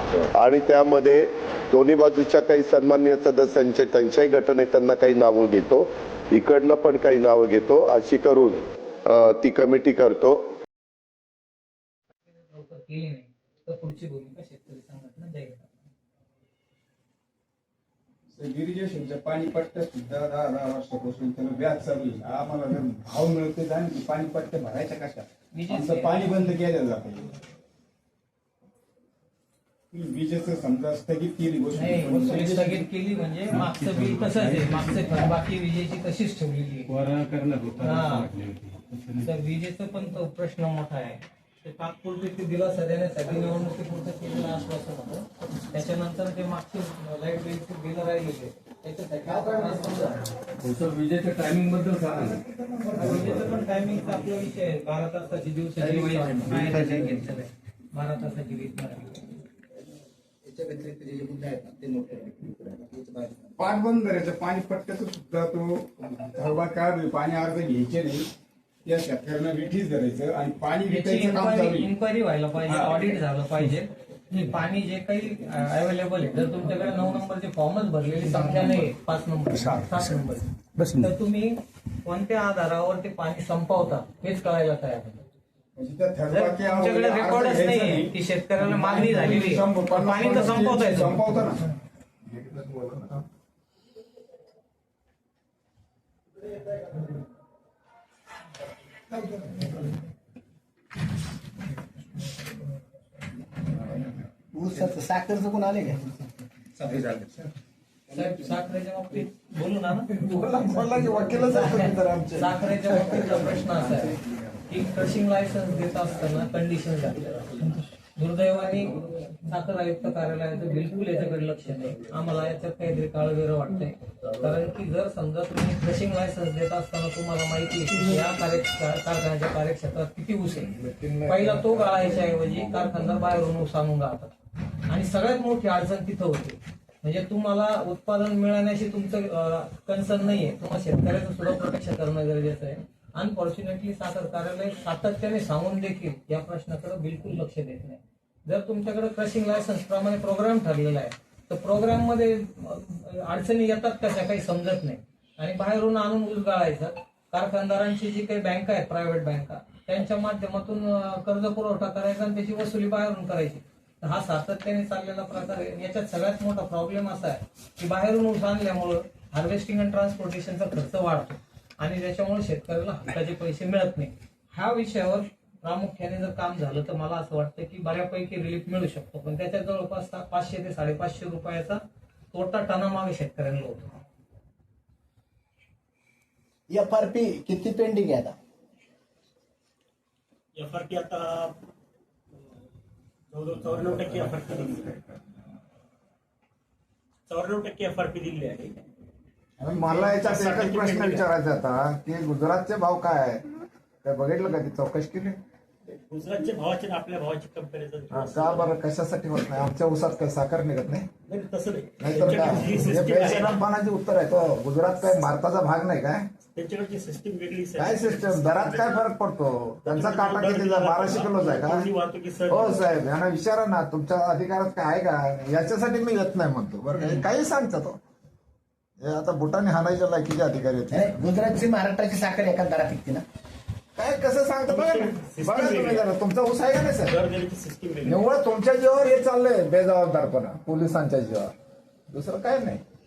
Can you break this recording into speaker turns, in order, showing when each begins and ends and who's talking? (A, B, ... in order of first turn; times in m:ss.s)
0:00.4-0:10.4 A
0:12.2-0:15.8 B
0:18.3-0:27.3 C
0:25.5-0:26.3 B
0:29.9-0:32.8 C
0:31.7-0:36.9 B
0:33.5-0:35.2 D
0:36.9-0:39.3 D
0:37.8-0:38.3 B
0:39.2-0:50.3 B
0:50.6-0:53.4 D
0:52.9-0:59.2 B
0:55.8-0:57.4 D
1:00.4-1:03.5 E
1:03.6-1:08.3 C
1:08.8-1:11.9 C
1:10.8-1:25.2 B
1:20.8-1:21.1 E
1:25.8-1:31.6 C
1:26.3-1:31.6 B
1:32.2-1:33.2 F
1:44.5-1:46.0 E
1:46.8-1:47.3 E
1:48.1-1:54.1 B
1:48.2-1:48.5 E
1:50.2-1:52.7 F
1:53.0-1:53.3 E
1:54.7-2:14.3 B
2:10.7-2:12.5 F
2:14.8-3:03.9 B
3:06.7-3:08.3 E
3:10.5-3:11.6 G
3:13.3-3:14.9 G
3:17.3-3:18.8 G
3:19.6-3:25.4 F
3:19.8-3:21.3 G
3:25.9-3:28.8 G
3:28.1-3:31.1 F
3:31.3-3:33.6 G
3:32.0-3:36.3 F
3:36.5-3:39.1 G
3:37.8-3:41.9 F
3:39.8-3:42.9 G
3:42.5-3:48.0 F
3:46.9-3:47.2 E
3:49.0-3:51.1 F
3:50.9-3:53.2 E
3:54.0-3:57.2 F
3:54.7-3:56.0 G
3:57.0-3:58.2 G
3:58.0-4:01.5 F
4:02.1-4:02.8 F